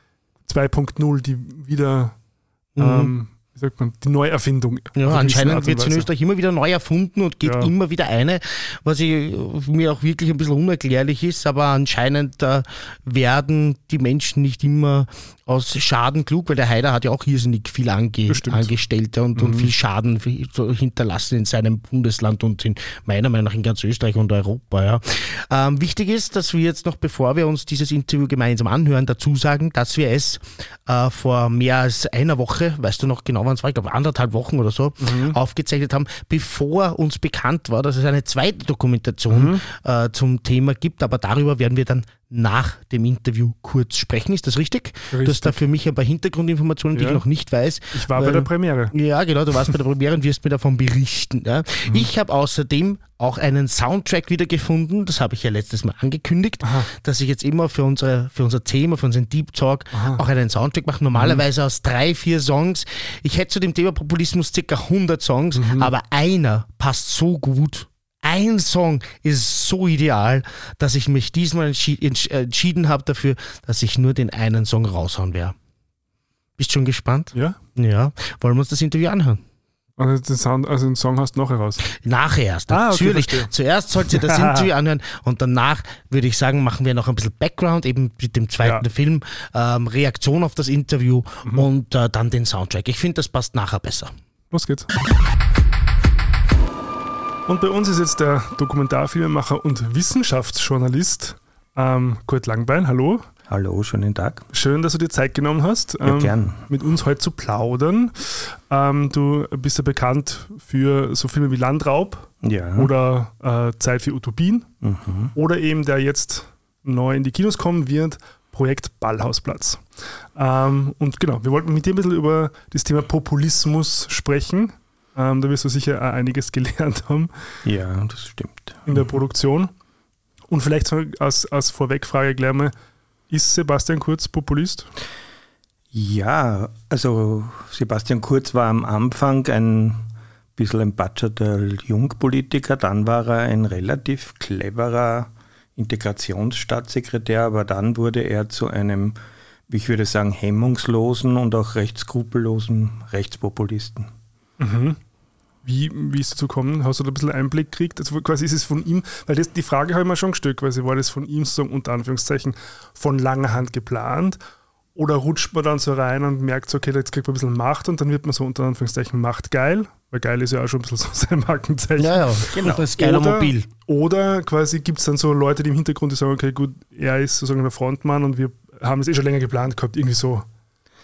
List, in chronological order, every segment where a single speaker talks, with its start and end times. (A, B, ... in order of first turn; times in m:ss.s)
0:00.4-0:02.2 A
0:02.8-0:03.1 B
0:02.8-0:06.1 A
0:05.0-1:15.6 B
0:07.4-0:07.7 A
0:18.3-0:18.7 A
0:19.3-0:19.7 A
0:35.0-0:35.4 A
0:39.3-0:39.6 A
0:45.1-0:45.6 A
0:46.9-0:47.2 A
0:47.9-0:48.9 A
0:56.6-0:56.9 A
0:59.9-1:00.2 A
1:01.1-1:01.4 A
1:05.5-1:05.9 A
1:16.6-1:19.4 B
1:17.3-1:17.6 A
1:20.0-1:21.8 A
1:21.8-1:34.1 B
1:22.7-1:23.5 A
1:24.0-1:24.6 A
1:34.5-1:34.9 A
1:37.5-1:43.2 A
1:43.5-1:44.4 C
1:44.5-1:54.7 A
1:46.0-1:46.6 C
1:52.4-1:52.9 C
1:54.8-1:55.3 C
1:55.3-2:07.3 A
2:07.6-2:09.0 C
2:08.9-2:09.7 A
2:10.5-2:12.7 A
2:13.3-2:14.9 A
2:15.9-2:20.0 C
2:20.6-2:29.2 C
2:29.7-2:34.1 C
2:34.6-2:35.0 A
2:35.6-2:44.4 A
2:44.9-3:00.4 A
2:52.0-2:53.7 B
2:52.5-2:52.8 C